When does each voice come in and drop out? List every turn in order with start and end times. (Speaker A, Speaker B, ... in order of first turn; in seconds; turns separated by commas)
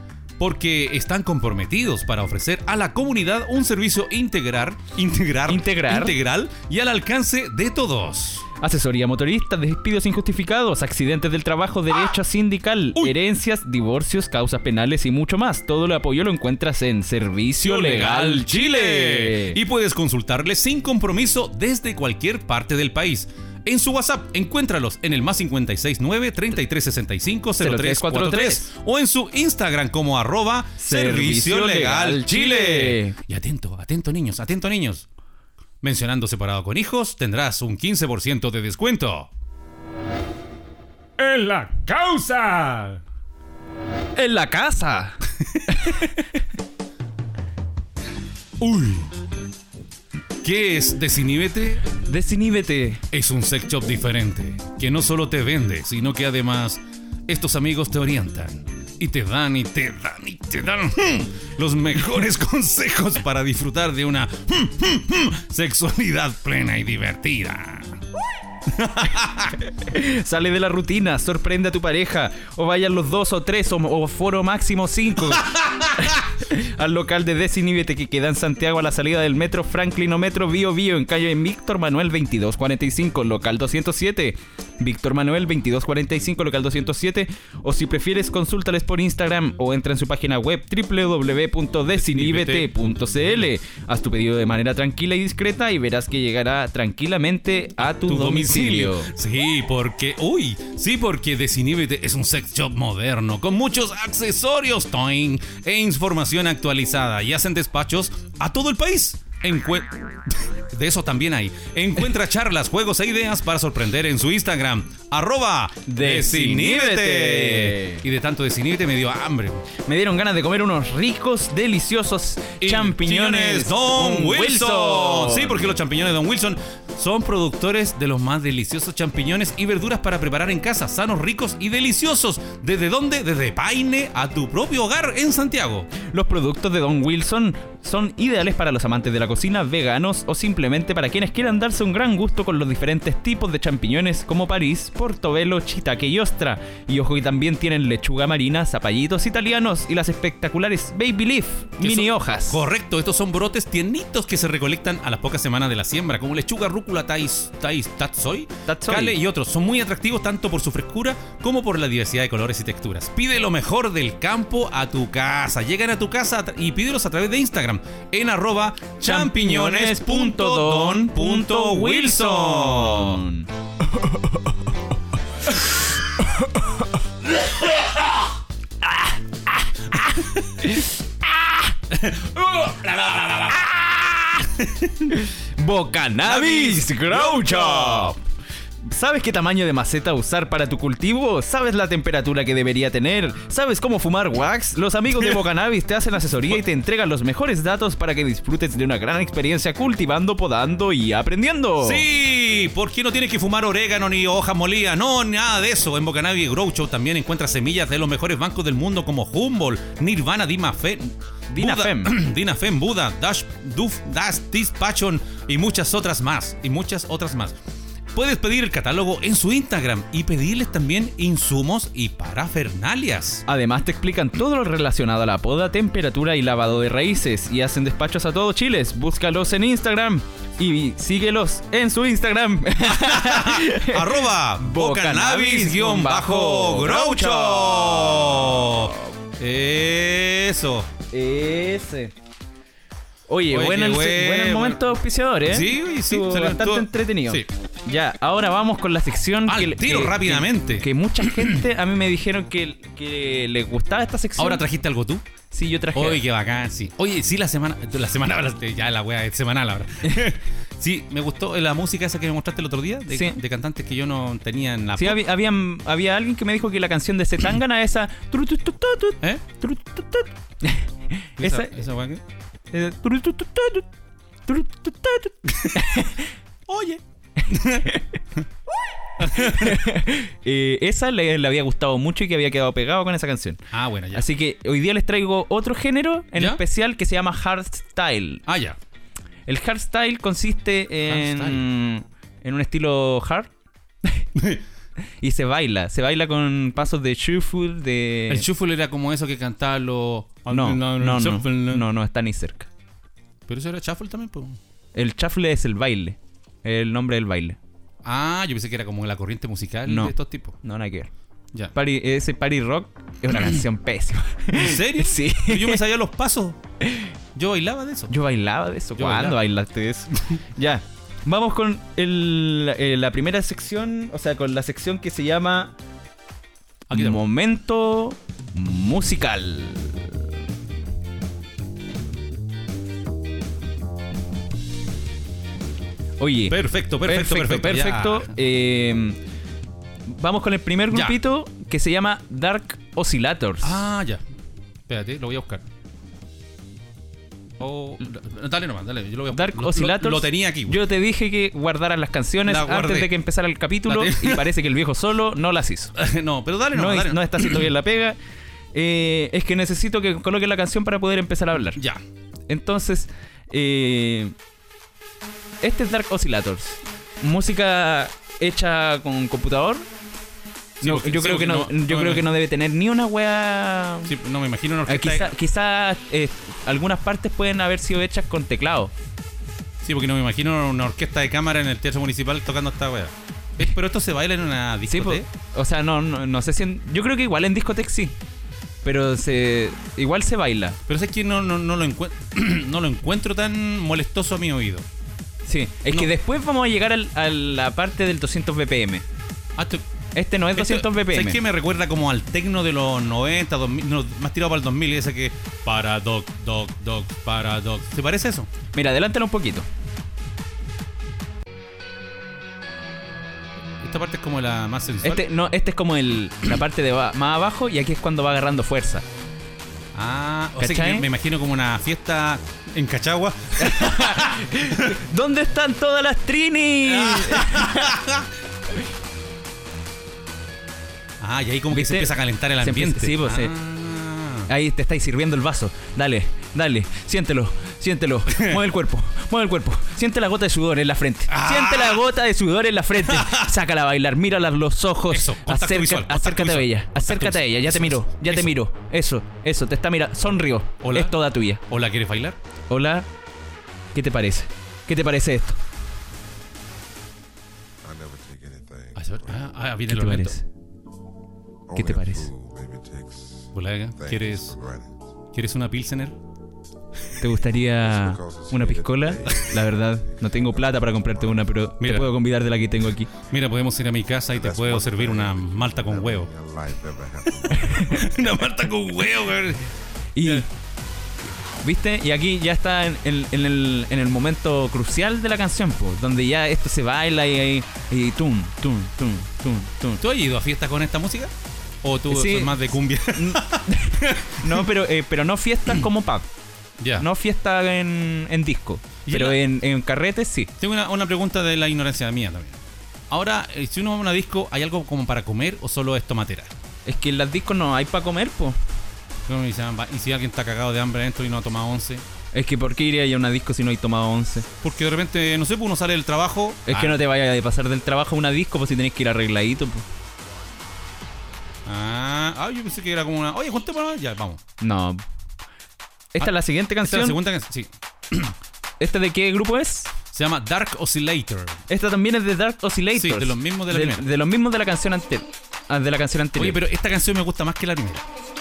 Speaker A: 0.4-8.4, Speaker B: 5.5-6.1, Speaker B: 8.6-19.6, Speaker A: 17.6-35.0, Speaker B: 27.6-28.7, Speaker B: 30.8-33.1, Speaker A: 35.8-39.3, Speaker A: 41.2-43.0, Speaker B: 44.1-46.2, Speaker A: 48.6-49.1, Speaker A: 50.4-51.9, Speaker B: 52.0-53.0, Speaker A: 53.1-68.0, Speaker A: 68.7-69.6, Speaker B: 69.7-99.1, Speaker A: 75.3-76.1, Speaker A: 91.9-92.7, Speaker A: 98.0-119.6, Speaker B: 115.9-118.0, Speaker B: 119.8-125.7, Speaker A: 122.6-135.9, Speaker B: 136.0-152.6, Speaker A: 151.8-173.2, Speaker B: 158.7-159.2, Speaker B: 169.0-173.5, Speaker B: 176.2-176.9, Speaker B: 178.8-180.0, Speaker B: 180.6-181.7, Speaker A: 181.9-185.2, Speaker B: 185.1-188.2, Speaker A: 186.2-188.2, Speaker B: 188.8-202.0, Speaker A: 201.8-217.6, Speaker B: 211.5-212.1, Speaker A: 218.1-223.4, Speaker B: 223.5-239.0, Speaker A: 232.8-240.9, Speaker B: 241.1-242.1, Speaker B: 243.3-254.6, Speaker A: 243.5-244.8, Speaker A: 245.4-247.5, Speaker A: 249.5-251.6, Speaker A: 254.4-255.2, Speaker B: 255.5-256.2, Speaker A: 255.9-265.2, Speaker B: 263.1-263.4, Speaker B: 265.0-271.8, Speaker A: 271.4-272.2, Speaker B: 272.7-273.9, Speaker B: 274.4-276.3, Speaker A: 275.5-275.8, Speaker A: 276.7-277.9, Speaker B: 277.4-278.1, Speaker A: 279.2-279.8, Speaker B: 279.2-283.6, Speaker A: 283.7-284.2, Speaker B: 284.1-288.4, Speaker A: 288.5-288.8, Speaker B: 289.5-293.5, Speaker A: 291.1-291.6, Speaker A: 294.3-294.6, Speaker B: 295.2-298.4, Speaker A: 298.3-301.9, Speaker B: 300.5-302.7, Speaker A: 303.5-304.6, Speaker B: 304.9-307.6, Speaker A: 308.0-310.6, Speaker B: 309.9-311.1, Speaker B: 311.7-315.8, Speaker A: 313.3-313.6, Speaker A: 314.5-316.6, Speaker B: 316.8-317.1, Speaker A: 317.3-318.1, Speaker B: 318.1-325.7, Speaker A: 318.9-319.4, Speaker A: 326.9-327.2, Speaker B: 326.9-330.2, Speaker B: 336.2-339.2, Speaker A: 336.5-338.3, Speaker B: 340.1-343.8, Speaker A: 340.9-341.2, Speaker A: 343.6-344.2, Speaker A: 344.9-345.6, Speaker A: 347.6-350.8, Speaker B: 349.3-355.9, Speaker A: 352.4-353.1, Speaker A: 353.9-354.5, Speaker A: 355.9-357.7, Speaker B: 356.7-358.2, Speaker B: 358.7-361.8, Speaker A: 361.8-362.0, Speaker B: 362.5-364.3, Speaker B: 365.6-369.9, Speaker A: 370.8-372.3, Speaker B: 370.8-374.1, Speaker A: 374.0-375.3, Speaker B: 374.9-378.9, Speaker A: 379.8-385.3, Speaker B: 384.9-388.1, Speaker B: 388.8-390.8, Speaker A: 390.9-394.9, Speaker B: 395.4-399.0, Speaker A: 399.6-399.8, Speaker B: 400.1-401.4, Speaker A: 400.5-408.5, Speaker B: 408.7-409.7, Speaker A: 413.8-415.2, Speaker B: 415.0-419.1, Speaker A: 419.9-424.9, Speaker B: 420.6-421.1, Speaker B: 423.6-428.0, Speaker A: 426.8-428.3, Speaker A: 431.2-434.5, Speaker B: 431.7-433.5, Speaker B: 434.5-451.6, Speaker A: 438.3-438.6, Speaker A: 441.3-442.0, Speaker A: 443.0-443.5, Speaker A: 445.1-448.5, Speaker A: 450.8-452.4, Speaker B: 452.7-453.1, Speaker B: 453.9-455.6, Speaker C: 457.8-459.5, Speaker A: 458.9-460.4, Speaker B: 459.9-460.4, Speaker C: 461.7-465.1, Speaker B: 461.7-462.3, Speaker A: 463.5-464.5, Speaker A: 465.3-466.2, Speaker B: 467.2-473.1, Speaker C: 467.2-471.4, Speaker A: 471.8-472.1, Speaker A: 473.3-476.3, Speaker C: 474.3-478.1, Speaker B: 477.6-478.0, Speaker A: 477.8-479.6, Speaker B: 480.1-480.5, Speaker B: 481.6-490.0, Speaker A: 490.0-491.3, Speaker A: 491.8-494.7, Speaker B: 492.1-492.6, Speaker B: 493.1-496.3, Speaker A: 496.8-497.0, Speaker B: 497.0-500.5, Speaker A: 499.0-499.4, Speaker A: 500.6-502.6, Speaker A: 503.1-506.5, Speaker B: 506.9-508.6, Speaker A: 509.3-512.0, Speaker B: 512.3-514.5, Speaker A: 514.6-517.0, Speaker B: 516.6-519.8, Speaker A: 521.6-524.4, Speaker B: 524.6-525.0, Speaker B: 526.1-527.2, Speaker A: 526.2-528.4, Speaker B: 528.8-529.9, Speaker A: 530.1-531.6, Speaker B: 531.7-536.6, Speaker A: 532.9-534.1, Speaker A: 536.4-538.0